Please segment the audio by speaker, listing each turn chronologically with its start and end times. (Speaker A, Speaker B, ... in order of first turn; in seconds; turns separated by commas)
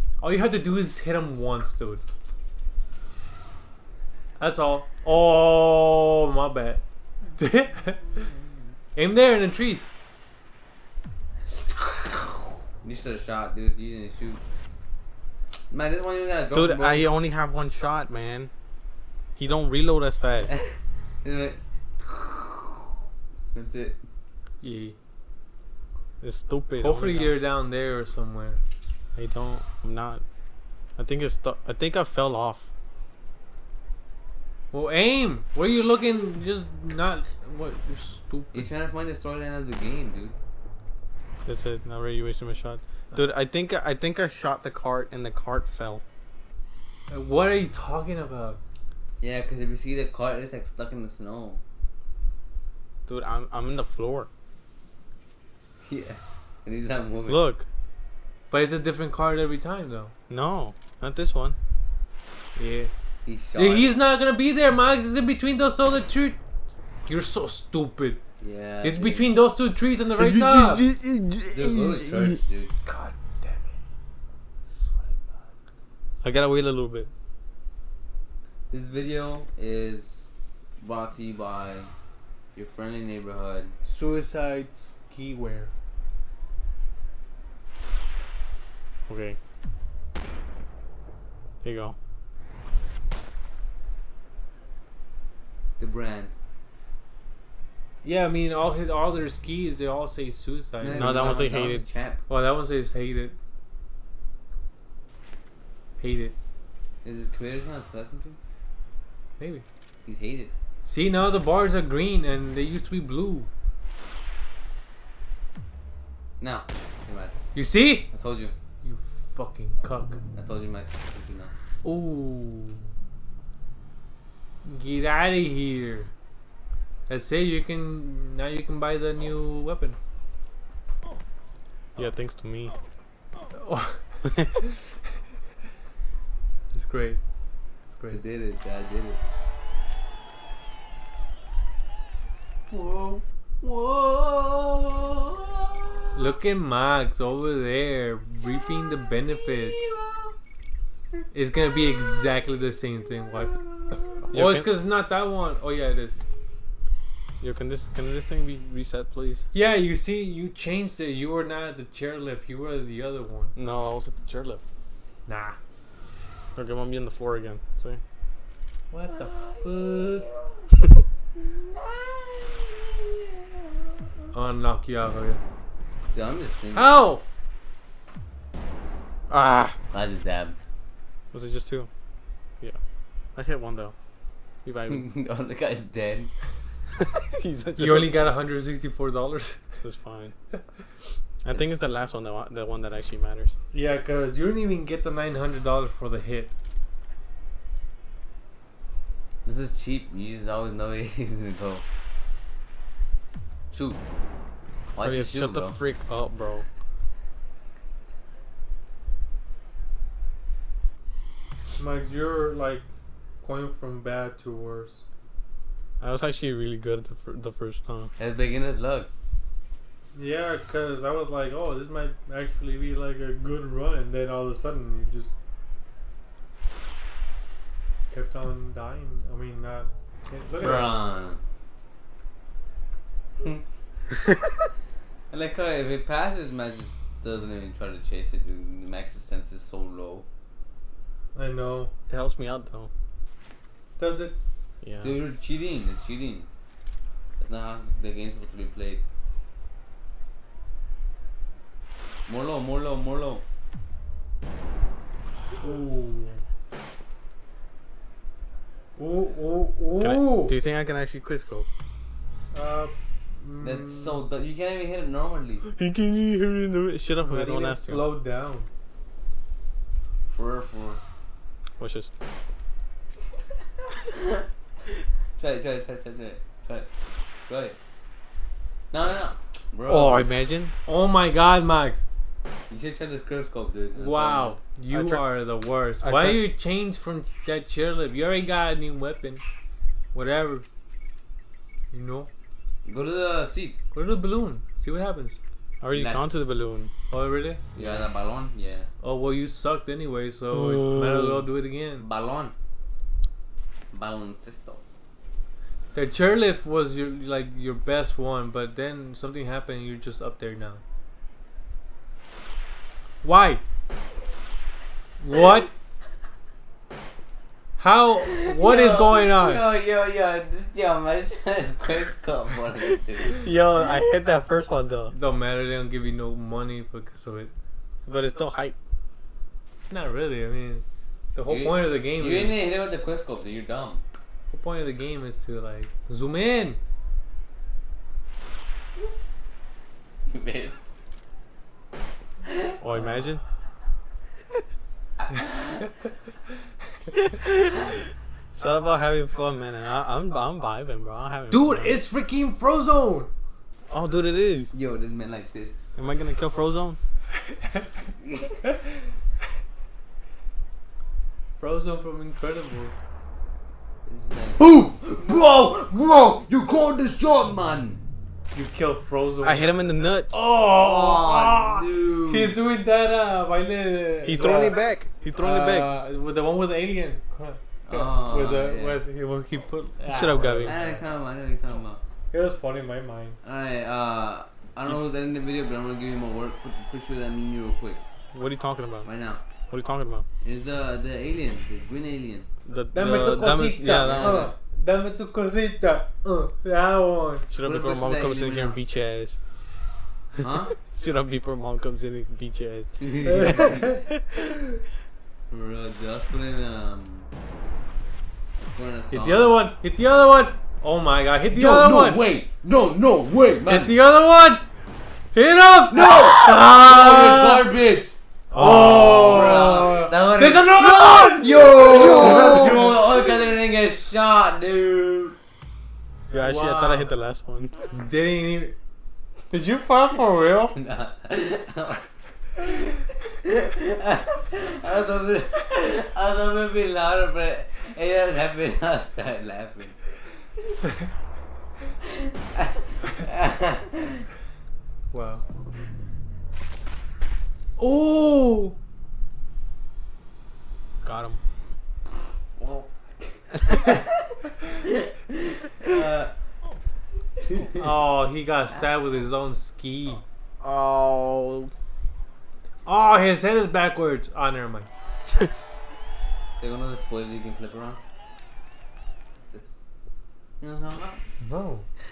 Speaker A: 0.2-2.0, Speaker A: 4.4-6.8, Speaker A: 7.3-8.2, Speaker A: 8.9-9.9, Speaker B: 11.8-12.2, Speaker B: 12.8-14.4, Speaker B: 15.7-17.1, Speaker C: 16.5-18.5, Speaker C: 19.4-20.5, Speaker B: 20.5-22.9, Speaker B: 23.5-24.0, Speaker A: 24.6-24.9, Speaker C: 26.2-27.3, Speaker A: 26.8-28.6, Speaker C: 29.1-30.2, Speaker C: 31.0-32.7, Speaker A: 34.7-38.7, Speaker B: 38.5-40.4, Speaker C: 41.5-46.0, Speaker A: 47.1-48.6, Speaker B: 49.2-51.6, Speaker C: 53.1-54.3, Speaker B: 55.8-57.4, Speaker C: 57.3-57.7, Speaker A: 58.5-60.1, Speaker C: 60.3-61.6, Speaker A: 62.5-62.9, Speaker B: 63.2-64.0, Speaker A: 63.5-66.4, Speaker A: 67.1-68.2, Speaker B: 68.4-69.3, Speaker A: 68.8-70.8, Speaker C: 70.2-72.4, Speaker B: 71.5-72.7, Speaker A: 72.8-73.8, Speaker A: 74.7-75.5, Speaker C: 76.2-77.1, Speaker B: 78.7-80.3, Speaker B: 80.8-81.9, Speaker B: 82.5-83.7, Speaker A: 83.8-85.7, Speaker C: 89.1-89.4, Speaker C: 91.6-92.0, Speaker B: 95.8-96.3, Speaker A: 98.0-101.3, Speaker B: 100.8-102.2, Speaker C: 100.9-101.8, Speaker A: 102.3-103.3, Speaker A: 106.0-106.3, Speaker B: 107.0-108.4, Speaker A: 109.4-109.6, Speaker B: 110.0-110.5, Speaker A: 110.8-113.5, Speaker B: 116.4-117.3, Speaker A: 117.5-118.1, Speaker B: 118.1-118.5, Speaker A: 118.8-120.2, Speaker B: 120.3-121.5, Speaker A: 121.8-122.9, Speaker A: 124.6-126.1, Speaker A: 127.1-130.0, Speaker C: 131.9-132.7, Speaker A: 133.5-134.8, Speaker A: 136.7-137.2, Speaker A: 137.9-138.2, Speaker B: 138.1-139.2, Speaker B: 142.7-146.3, Speaker A: 146.1-149.9, Speaker B: 148.6-150.3, Speaker A: 151.3-153.6, Speaker B: 151.7-152.2, Speaker B: 153.4-154.2, Speaker C: 154.3-154.7, Speaker A: 154.3-156.1, Speaker C: 157.4-159.4, Speaker A: 159.5-163.5, Speaker C: 163.6-164.6, Speaker A: 165.3-165.6, Speaker C: 166.5-168.0, Speaker A: 168.9-170.2, Speaker B: 169.1-170.6, Speaker B: 171.4-173.1, Speaker A: 174.3-175.4, Speaker B: 176.1-177.0, Speaker A: 176.7-177.2, Speaker C: 179.3-179.8, Speaker B: 179.9-180.6, Speaker C: 181.3-181.9, Speaker C: 183.3-183.9, Speaker C: 184.6-185.0, Speaker B: 184.9-186.3, Speaker C: 187.0-188.3, Speaker A: 187.8-189.6, Speaker C: 189.8-190.3, Speaker C: 191.4-193.6, Speaker A: 193.7-196.5, Speaker B: 199.4-201.8, Speaker B: 203.7-204.0, Speaker B: 204.9-205.8, Speaker C: 205.0-206.7, Speaker A: 211.8-212.8, Speaker A: 213.4-215.0, Speaker C: 216.0-218.1, Speaker B: 218.2-219.1, Speaker A: 220.1-225.3, Speaker A: 228.1-230.9, Speaker B: 230.6-231.4, Speaker B: 235.3-240.3, Speaker A: 241.3-241.9, Speaker C: 242.1-242.9, Speaker A: 244.0-244.3, Speaker C: 244.8-245.2, Speaker B: 245.0-246.5, Speaker B: 247.4-249.0, Speaker B: 252.3-253.4, Speaker A: 255.6-256.4, Speaker A: 259.0-260.5, Speaker C: 260.0-261.7, Speaker A: 262.5-264.2, Speaker B: 263.6-265.6, Speaker C: 265.6-268.1, Speaker A: 267.2-268.7, Speaker B: 270.3-271.0, Speaker C: 271.8-272.1, Speaker B: 273.9-274.4, Speaker B: 275.3-276.9, Speaker B: 277.5-277.8, Speaker B: 278.9-280.3, Speaker C: 279.9-280.7, Speaker A: 280.9-282.0, Speaker B: 282.7-284.6, Speaker A: 283.9-289.4, Speaker C: 284.9-285.2, Speaker C: 286.0-286.4, Speaker A: 290.1-290.6, Speaker A: 291.9-292.3, Speaker B: 292.8-293.8, Speaker A: 293.9-295.4, Speaker C: 295.8-296.9, Speaker B: 295.9-296.3, Speaker A: 297.1-297.6, Speaker B: 297.7-298.9, Speaker A: 299.0-302.0, Speaker C: 300.5-301.4, Speaker B: 302.0-302.5, Speaker B: 303.9-304.8, Speaker A: 305.9-310.8, Speaker A: 313.2-313.6, Speaker A: 315.2-315.7, Speaker A: 317.8-319.6, Speaker B: 318.2-323.4, Speaker C: 323.2-325.1, Speaker A: 325.1-327.5, Speaker C: 328.1-328.8, Speaker A: 329.9-330.8, Speaker A: 331.3-332.6, Speaker B: 331.5-334.0, Speaker A: 334.5-336.8, Speaker B: 340.3-340.8, Speaker B: 342.5-342.8, Speaker C: 342.8-343.4, Speaker A: 342.9-343.2, Speaker B: 345.3-345.9, Speaker C: 348.6-352.0, Speaker A: 351.5-353.3, Speaker C: 353.9-354.7, Speaker B: 354.7-355.7, Speaker C: 355.9-357.0, Speaker B: 358.2-358.6, Speaker A: 361.6-362.9, Speaker B: 364.1-368.0, Speaker A: 364.6-364.9, Speaker A: 368.5-374.8, Speaker C: 369.4-370.4, Speaker B: 370.7-372.6, Speaker C: 374.2-375.9, Speaker A: 375.4-381.0, Speaker B: 377.8-379.0, Speaker C: 380.1-380.8, Speaker B: 380.6-382.0, Speaker A: 382.3-383.4, Speaker B: 383.4-388.0, Speaker C: 388.3-389.1, Speaker B: 389.0-389.4, Speaker C: 389.7-390.2, Speaker B: 390.4-392.5, Speaker C: 392.6-394.5, Speaker A: 392.9-397.5, Speaker B: 393.8-394.5, Speaker C: 397.5-399.4, Speaker B: 397.6-398.8, Speaker B: 400.4-400.8, Speaker C: 400.8-404.2, Speaker B: 403.0-403.9, Speaker A: 403.2-404.0, Speaker B: 405.5-407.3, Speaker B: 408.6-409.6, Speaker A: 409.1-412.2, Speaker B: 411.5-413.9, Speaker A: 413.7-414.6, Speaker A: 415.3-417.6, Speaker B: 415.9-418.1, Speaker C: 418.5-419.6, Speaker A: 418.5-423.3, Speaker B: 418.7-425.4, Speaker C: 426.3-427.8, Speaker A: 426.3-427.1, Speaker A: 427.9-428.8, Speaker A: 429.5-430.7, Speaker B: 430.7-432.0, Speaker B: 432.6-440.0, Speaker B: 442.5-444.2, Speaker A: 445.1-445.5, Speaker A: 447.8-448.8, Speaker C: 451.0-451.4, Speaker B: 452.6-454.0, Speaker B: 455.8-456.3, Speaker A: 457.8-460.2, Speaker C: 460.6-461.7, Speaker A: 462.9-464.9, Speaker B: 466.6-468.0, Speaker B: 470.6-471.2, Speaker A: 471.4-471.8